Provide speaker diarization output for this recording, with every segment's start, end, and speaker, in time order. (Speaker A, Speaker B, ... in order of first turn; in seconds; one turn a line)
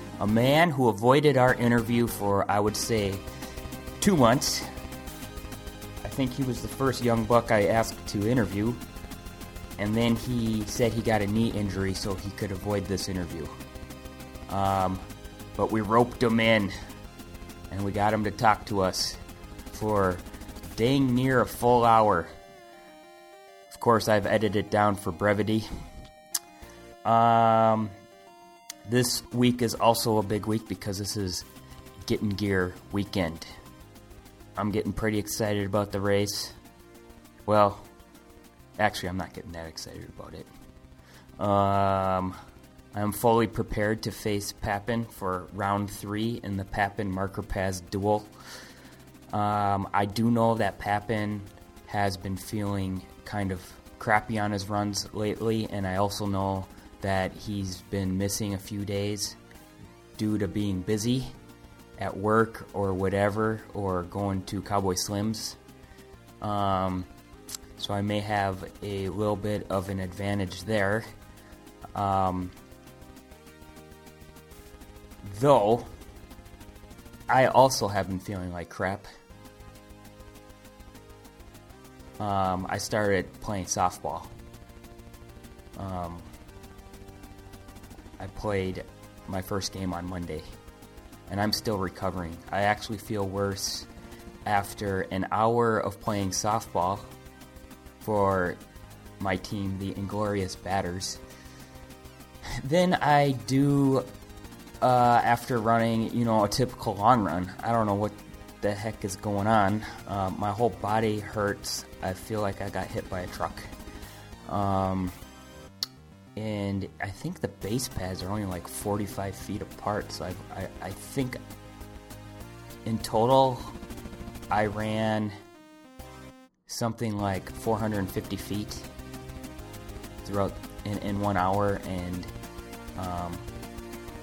Speaker A: 0.2-3.2
Speaker A: 4.0-4.7
Speaker A: 6.0-8.8
Speaker A: 9.8-13.5
Speaker A: 14.5-15.0
Speaker A: 15.6-16.7
Speaker A: 17.7-19.2
Speaker A: 19.7-20.2
Speaker A: 20.7-22.3
Speaker A: 23.7-25.7
Speaker A: 27.0-27.9
Speaker A: 28.9-31.4
Speaker A: 32.0-33.5
Speaker A: 34.5-36.5
Speaker A: 37.5-37.9
Speaker A: 38.8-40.5
Speaker A: 41.4-42.4
Speaker A: 42.9-48.3
Speaker A: 49.3-59.4
Speaker A: 60.2-61.3
Speaker A: 62.0-65.6
Speaker A: 66.4-67.1
Speaker A: 67.8-71.1
Speaker A: 71.9-72.5
Speaker A: 75.2-75.9
Speaker A: 77.3-79.1
Speaker A: 82.2-84.3
Speaker A: 85.8-86.2
Speaker A: 88.2-90.5
Speaker A: 91.3-93.9
Speaker A: 94.5-97.1
Speaker A: 98.0-98.6
Speaker A: 99.2-101.2
Speaker A: 102.6-104.1
Speaker A: 104.8-113.7
Speaker A: 114.5-115.1
Speaker A: 116.4-121.4
Speaker A: 122.8-123.8
Speaker A: 124.5-125.3
Speaker A: 126.7-128.9
Speaker A: 130.2-132.3
Speaker A: 132.9-133.4